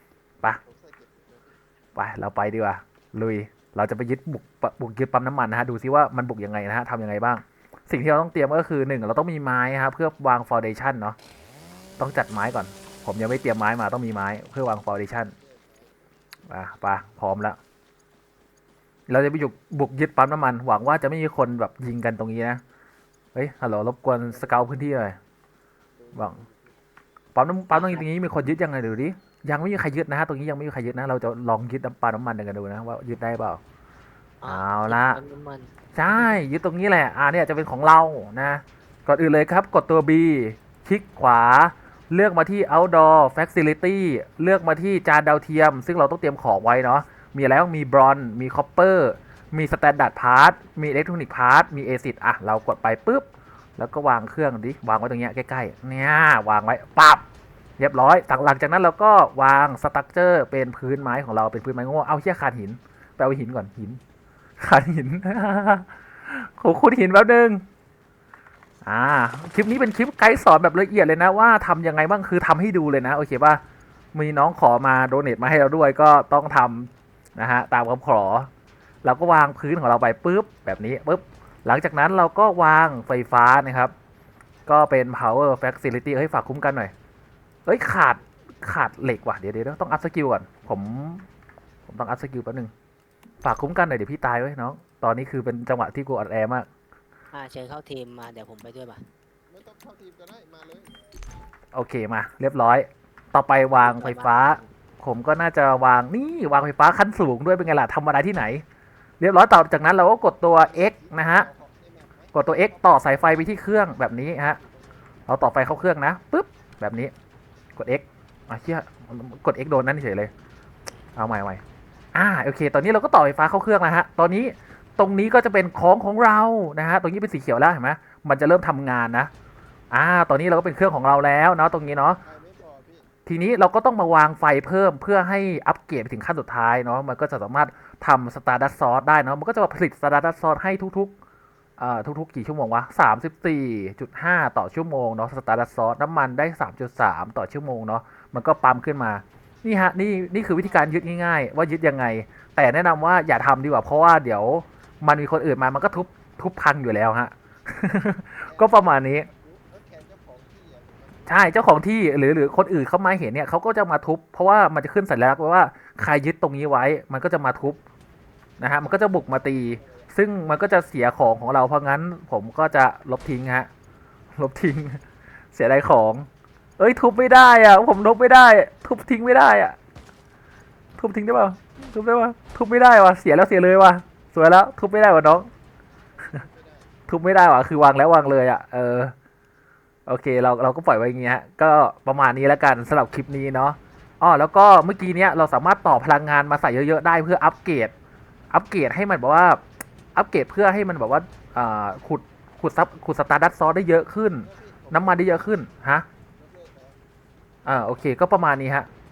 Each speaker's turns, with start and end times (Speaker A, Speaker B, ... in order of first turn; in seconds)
Speaker A: 0.6-1.5, 15.4-15.9, 26.0-26.5, 99.5-101.0, 110.9-112.3, 132.2-133.1, 158.5-161.3, 169.7-170.0, 186.3-186.8, 204.5-205.3, 206.4-207.0
Speaker B: 1.9-11.2, 12.0-15.3, 16.5-17.6, 19.1-22.6, 23.3-25.2, 26.1-26.4, 27.3-33.6, 34.4-35.2, 35.9-57.2, 57.8-64.0, 64.6-67.6, 68.8-73.6, 74.1-78.5, 79.0-83.9, 84.7-86.9, 87.7-91.3, 91.9-92.7, 93.4-96.7, 101.7-108.6, 109.2-111.5, 112.3-114.6, 115.3-117.1, 117.8-120.3, 121.2-121.6, 122.1-129.3, 129.9-132.2, 133.2-141.1, 141.8-159.3, 161.2-167.8, 168.6-173.7, 174.3-175.0, 175.5-176.3, 176.8-179.8, 181.0-185.5, 187.1-189.1, 190.1-197.9, 198.5-199.6, 200.1-206.1, 207.7-208.9
Speaker C: 27.7-28.1, 34.4-36.4, 97.3-99.0, 103.8-104.7